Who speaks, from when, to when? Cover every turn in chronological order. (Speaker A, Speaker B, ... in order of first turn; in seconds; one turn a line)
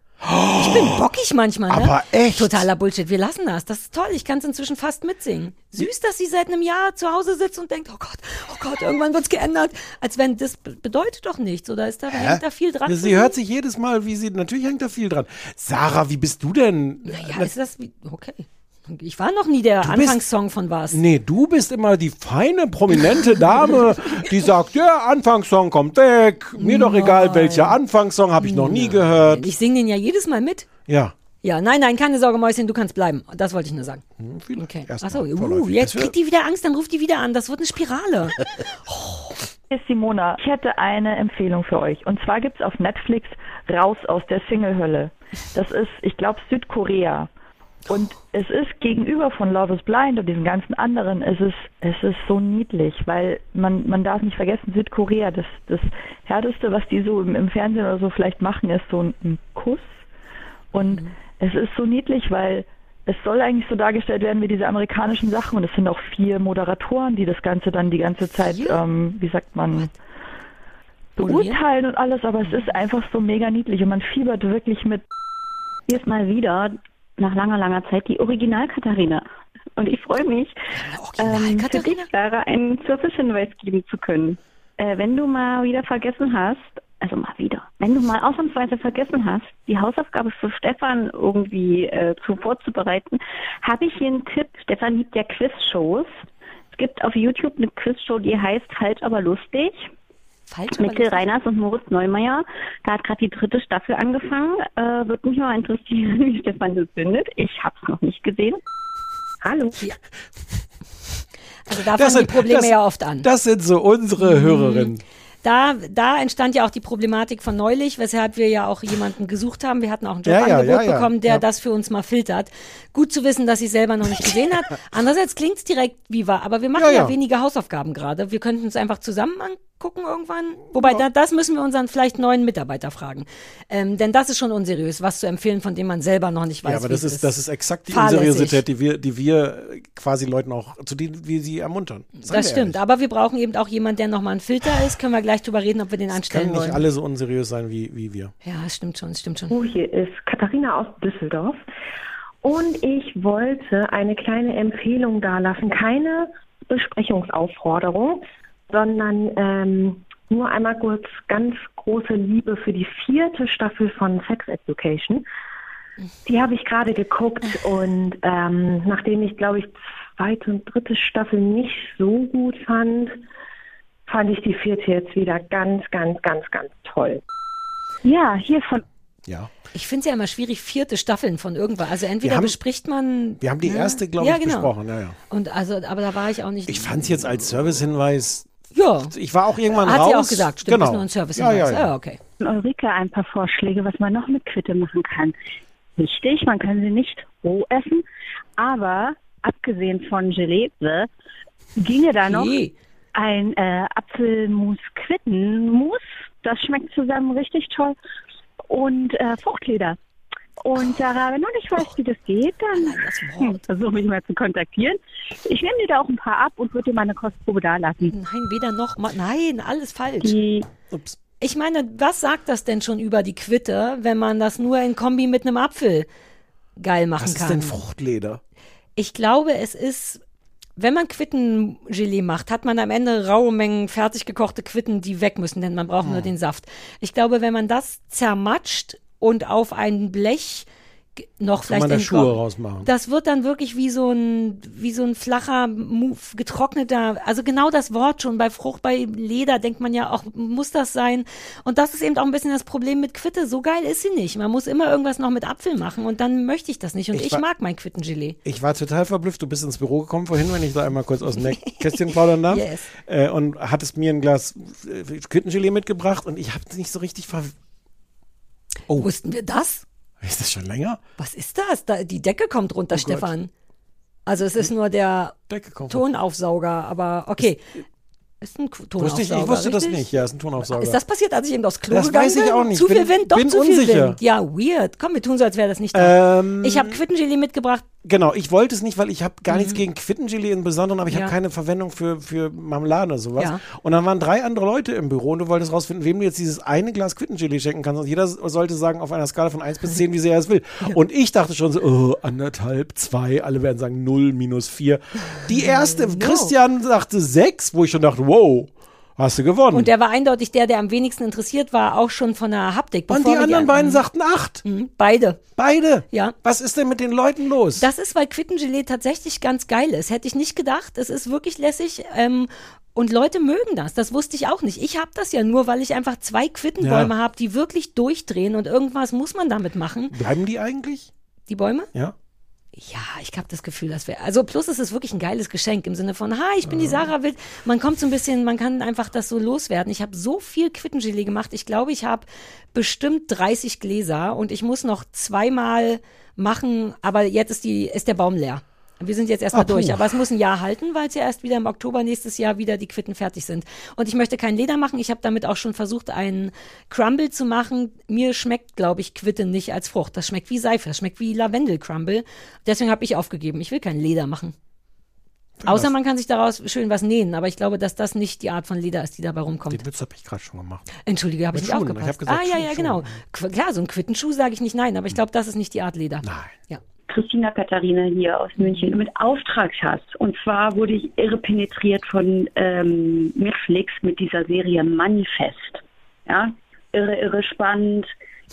Speaker A: 0.2-1.0
Speaker B: 0.5-13.3
Speaker A: 1.7-2.7
Speaker A: 12.1-17.5
Speaker B: 17.1-21.0
Speaker A: 19.8-20.2
Speaker A: 20.9-29.5
Speaker B: 23.6-24.1
Speaker B: 26.6-27.8
Speaker B: 28.4-30.7
Speaker A: 30.9-31.1
Speaker B: 31.4-34.0
Speaker A: 34.2-36.1
Speaker B: 34.6-39.4
Speaker C: 39.7-47.3
Speaker C: 47.9-60.0
Speaker C: 60.7-69.9
Speaker B: 60.8-61.1
Speaker B: 68.4-68.8
Speaker B: 71.2-71.6
Speaker C: 71.2-75.0
Speaker D: 75.9-79.2
Speaker D: 79.8-80.5
Speaker B: 80.7-82.1
Speaker D: 81.2-96.1
Speaker D: 96.7-99.9
Speaker B: 100.5-101.3
Speaker D: 100.8-108.6
Speaker D: 109.4-109.7
Speaker B: 111.7-113.3
Speaker A: 111.9-115.0
Speaker B: 114.2-114.9
Speaker B: 115.4-137.3
Speaker A: 120.2-121.4
Speaker A: 126.8-127.1
Speaker A: 130.8-131.0
Speaker A: 136.6-142.8
Speaker B: 137.9-138.6
Speaker B: 142.2-146.8
Speaker A: 146.1-148.3
Speaker B: 148.4-149.5
Speaker E: 149.5-151.6
Speaker E: 152.4-165.2
Speaker E: 166.2-173.2
Speaker E: 174.1-177.2
Speaker D: 178.0-178.8
Speaker B: 179.7-184.7
Speaker A: 182.2-182.6
Speaker A: 183.4-185.2
Speaker B: 185.3-187.4
Speaker A: 186.7-188.5
Speaker B: 188.8-189.1
Speaker A: 189.1-191.9
Speaker B: 189.7-192.2
Speaker D: 192.4-195.3
Speaker D: 196.0-198.0
Speaker D: 198.6-201.1
Speaker D: 201.8-202.5
Speaker B: 202.3-202.7
Speaker D: 203.2-208.0
Speaker D: 208.7-210.0
Speaker D: 210.7-212.9
Speaker B: 212.7-213.6
Speaker D: 213.5-215.0
Speaker D: 215.5-218.1
Speaker B: 218.1-220.3
Speaker F: 220.2-220.7
Speaker A: 220.9-221.2
Speaker B: 221.4-226.1
Speaker B: 226.8-227.8
Speaker A: 227.2-228.4
Speaker B: 229.0-230.2
Speaker B: 230.8-240.7
Speaker A: 236.0-236.3
Speaker B: 241.4-258.4
Speaker A: 241.7-242.9
Speaker A: 257.1-257.4
Speaker A: 258.4-267.5
Speaker B: 261.6-262.9
Speaker B: 268.9-269.8
Speaker A: 270.2-271.0
Speaker B: 271.2-273.5
Speaker A: 272.9-273.3
Speaker B: 274.3-275.4
Speaker A: 275.5-276.0
Speaker B: 275.9-277.7
Speaker B: 278.4-280.1
Speaker A: 279.0-281.0
Speaker B: 280.6-287.9
Speaker A: 281.9-284.2
Speaker A: 285.9-287.0
Speaker A: 288.0-309.9
Speaker B: 289.5-289.8
Speaker B: 291.1-291.4
Speaker B: 305.4-306.5
Speaker B: 309.7-314.0
Speaker A: 313.1-314.6
Speaker B: 314.6-315.4
Speaker A: 315.6-317.9
Speaker B: 317.8-330.1
Speaker A: 326.8-327.1
Speaker A: 330.1-331.1
Speaker B: 331.5-331.9
Speaker B: 332.8-364.6
Speaker A: 336.6-337.1
Speaker A: 349.5-350.1
Speaker A: 365.6-365.9
Speaker B: 365.7-369.8
Speaker A: 369.7-370.9
Speaker B: 371.1-376.8
Speaker A: 371.5-373.1
Speaker A: 376.2-376.6
Speaker F: 377.1-388.1
Speaker B: 378.6-378.9